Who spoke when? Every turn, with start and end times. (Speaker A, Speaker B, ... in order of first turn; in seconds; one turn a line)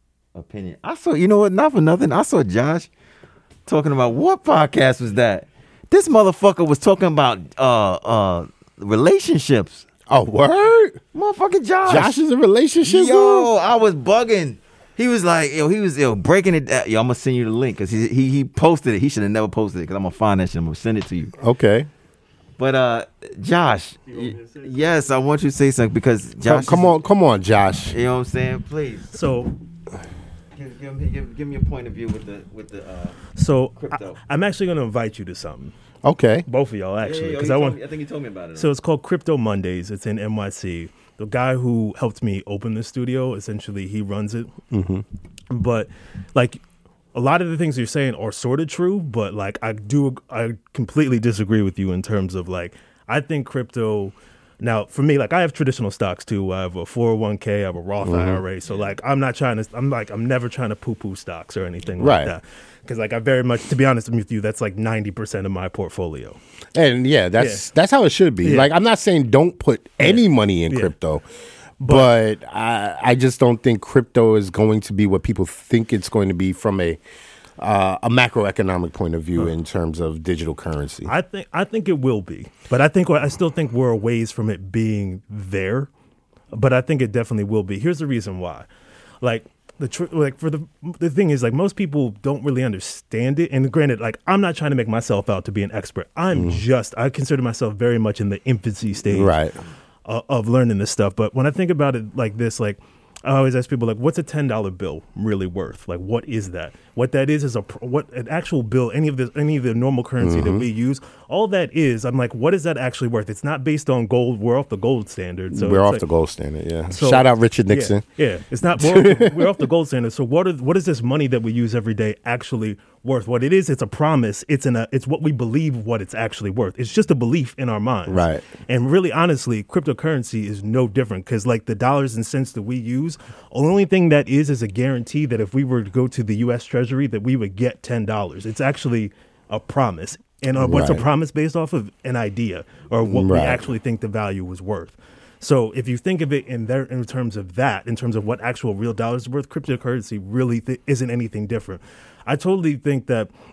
Speaker A: 0.3-2.9
Speaker A: 3.6-9.9
Speaker B: 10.1-11.0
Speaker A: 11.1-12.1
Speaker B: 11.8-13.5
Speaker A: 12.8-21.3
Speaker B: 21.4-21.9
Speaker A: 22.6-26.9
Speaker C: 24.1-25.0
Speaker B: 26.4-27.9
Speaker A: 27.9-29.1
Speaker C: 29.1-29.5
Speaker A: 30.5-34.2
Speaker C: 33.4-35.7
Speaker B: 36.0-36.5
Speaker C: 36.5-37.8
Speaker A: 37.0-38.7
Speaker C: 38.5-44.5
Speaker B: 44.7-45.0
Speaker C: 45.5-46.6
Speaker C: 47.1-66.4
Speaker B: 58.0-58.4
Speaker A: 58.6-59.0
Speaker B: 62.0-62.3
Speaker B: 66.7-71.2
Speaker C: 67.4-67.7
Speaker C: 68.4-68.7
Speaker C: 70.0-70.9
Speaker C: 71.8-72.1
Speaker B: 71.8-77.0
Speaker B: 77.6-81.1
Speaker C: 81.0-85.9
Speaker C: 86.5-88.7
Speaker C: 89.2-99.4
Speaker B: 96.3-96.6
Speaker B: 99.1-99.5
Speaker C: 100.0-116.0
Speaker B: 110.2-110.7
Speaker B: 115.5-118.0
Speaker C: 116.9-153.3
Speaker B: 118.8-119.5
Speaker B: 128.1-128.4
Speaker B: 140.6-141.1
Speaker B: 143.0-143.6